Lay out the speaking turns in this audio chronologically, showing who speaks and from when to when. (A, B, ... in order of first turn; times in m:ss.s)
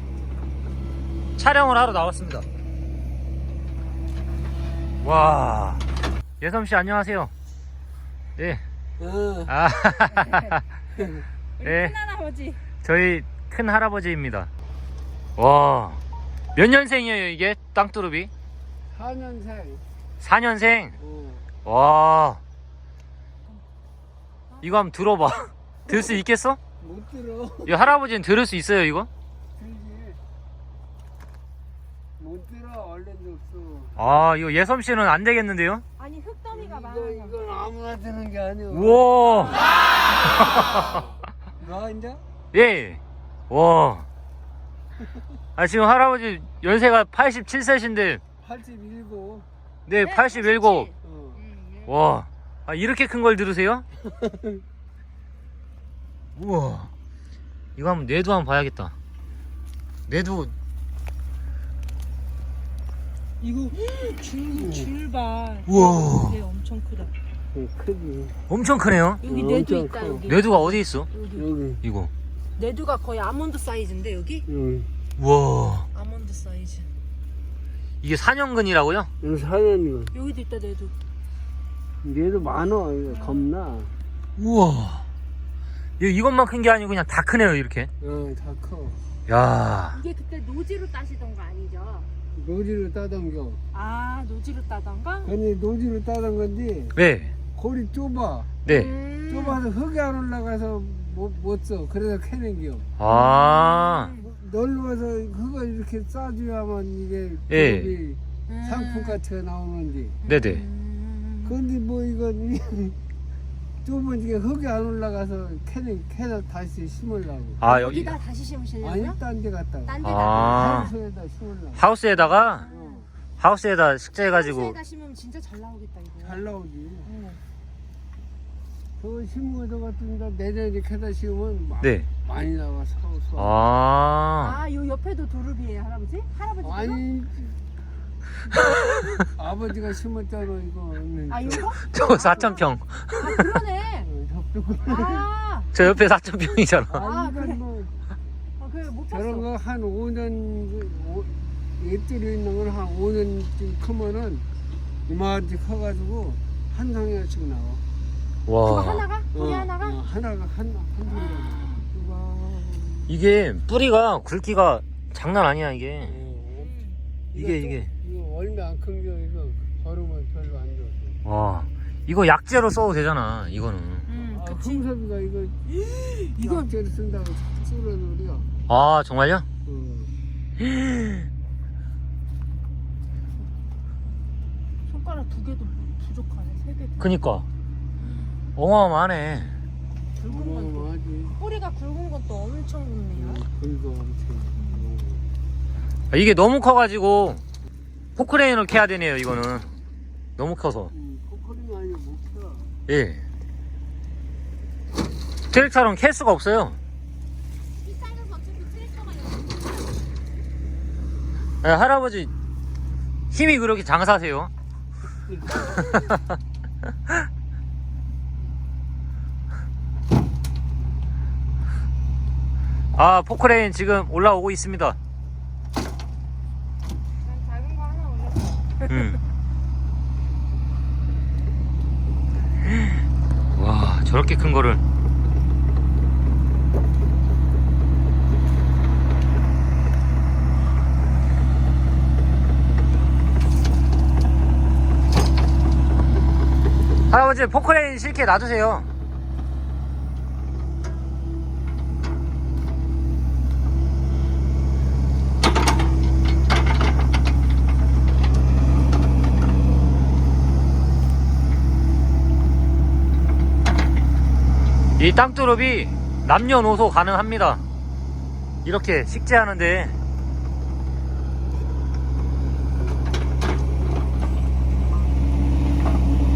0:01.4-0:02.5 A
0:05.0-0:05.8 A
0:06.4-0:07.3 A
0:08.4-0:08.6 A
0:09.0-0:09.5 B
0:09.5-0:10.6 A
0:10.1-0:10.6 C
0:11.6-0:12.6 C
0:11.6-0:12.0 A
0:12.8-0:14.5 A
0:15.4-0:16.0 A
0:16.6-0:18.3 A
0:18.9-0:19.8 B
0:20.2-0:21.0 A
0:21.0-0:21.4 B
0:21.6-0:22.4 A
0:24.6-0:26.6 A
0:26.8-0:27.8 B
0:27.7-0:29.1 A
0:29.6-0:30.2 B
0:32.2-0:34.0 B
0:34.0-0:35.8 A
0:36.0-0:37.4 C
0:36.6-0:39.0 B
0:38.7-0:41.0 A
0:41.6-0:42.2 B
0:42.5-0:44.0 A
0:45.6-0:48.2 A
0:48.4-0:49.5 B
0:49.9-0:50.9 A
0:50.0-0:52.0 C
0:51.0-0:51.4 B
0:51.9-0:53.8 A
0:54.1-0:54.5 B
0:56.4-0:56.9 A
0:57.8-0:58.9 A
1:00.1-1:00.5 A
1:03.4-1:07.1 C
1:04.6-1:04.9 B
1:05.7-1:06.4 A
1:07.5-1:08.4 B
1:08.5-1:09.2 A
1:09.2-1:11.5 C
1:09.2-1:10.2 B
1:10.3-1:11.1 A
1:11.4-1:11.8 B
1:11.8-1:12.1 A
1:12.6-1:14.5 C
1:14.5-1:14.9 B
1:15.2-1:15.9 A
1:15.9-1:16.9 C
1:18.0-1:19.1 A
1:19.2-1:20.1 B
1:20.1-1:21.0 C
1:22.0-1:23.9 B
1:23.1-1:23.5 C
1:24.4-1:25.0 A
1:26.0-1:27.9 A
1:28.0-1:29.0 B
1:29.3-1:30.0 A
1:29.9-1:32.1 C
1:32.4-1:33.6 B
1:33.7-1:35.4 C
1:35.3-1:36.9 B
1:37.0-1:37.3 A
1:37.6-1:38.5 B
1:38.6-1:38.9 A
1:38.7-1:39.6 C
1:39.3-1:42.9 B
1:43.0-1:44.1 A
1:43.0-1:44.3 C
1:44.2-1:50.2 B
1:47.5-1:48.0 A
1:48.5-1:49.2 C
1:50.2-1:51.6 C
1:50.3-1:50.6 A
1:51.5-1:53.0 B
1:53.8-1:57.7 B
1:57.6-1:58.2 A
1:57.6-1:59.2 C
1:58.8-2:01.8 B
1:59.8-2:00.9 C
2:00.0-2:00.9 A
2:01.8-2:02.7 A
2:02.2-2:03.1 C
2:02.7-2:03.1 B
2:03.4-2:04.8 A
2:04.3-2:06.5 C
2:06.2-2:07.1 B
2:07.0-2:07.4 C
2:09.0-2:13.4 B
2:11.8-2:12.1 A
2:13.4-2:14.6 A
2:14.4-2:17.0 C
2:16.6-2:17.6 B
2:18.5-2:21.8 B
2:21.3-2:24.1 C
2:21.8-2:23.5 A
2:24.1-2:25.3 B
2:24.8-2:25.7 C
2:25.7-2:27.0 A
2:26.9-2:28.0 B
2:27.0-2:27.6 C
2:28.6-2:29.5 C
2:29.1-2:34.4 B
2:35.1-2:37.8 B
2:38.5-2:39.1 A
2:38.6-2:40.0 C
2:39.3-2:43.1 B
2:41.1-2:41.9 C
2:43.1-2:46.2 A
2:46.1-2:46.7 B
2:46.5-2:47.0 C
2:47.3-2:47.9 A
2:47.3-2:51.2 B
2:51.2-2:54.1 A
2:54.1-2:54.8 C
2:54.3-2:58.5 B
2:55.9-2:56.7 C
2:58.7-2:59.4 A
2:59.6-3:00.1 B
3:00.6-3:01.3 A
3:04.9-3:07.2 C
3:07.0-3:07.5 A
3:08.6-3:09.6 A
3:10.2-3:13.5 C
3:10.2-3:11.4 B
3:13.2-3:15.2 B
3:14.6-3:14.9 C
3:16.1-3:17.4 A
3:18.2-3:19.7 A
3:20.4-3:20.9 A
3:21.0-3:22.7 B
3:22.9-3:23.2 A
3:25.5-3:26.8 A
3:27.8-3:29.6 C
3:31.6-3:32.3 A
3:33.3-3:34.5 A
3:35.9-3:36.2 A
3:43.0-3:45.0 A
3:47.2-3:48.9 C
3:48.9-3:49.2 A
3:52.7-3:53.0 A
3:53.6-3:54.8 A
4:07.1-4:08.9 A
4:25.0-4:27.6 A
4:28.6-4:30.0 A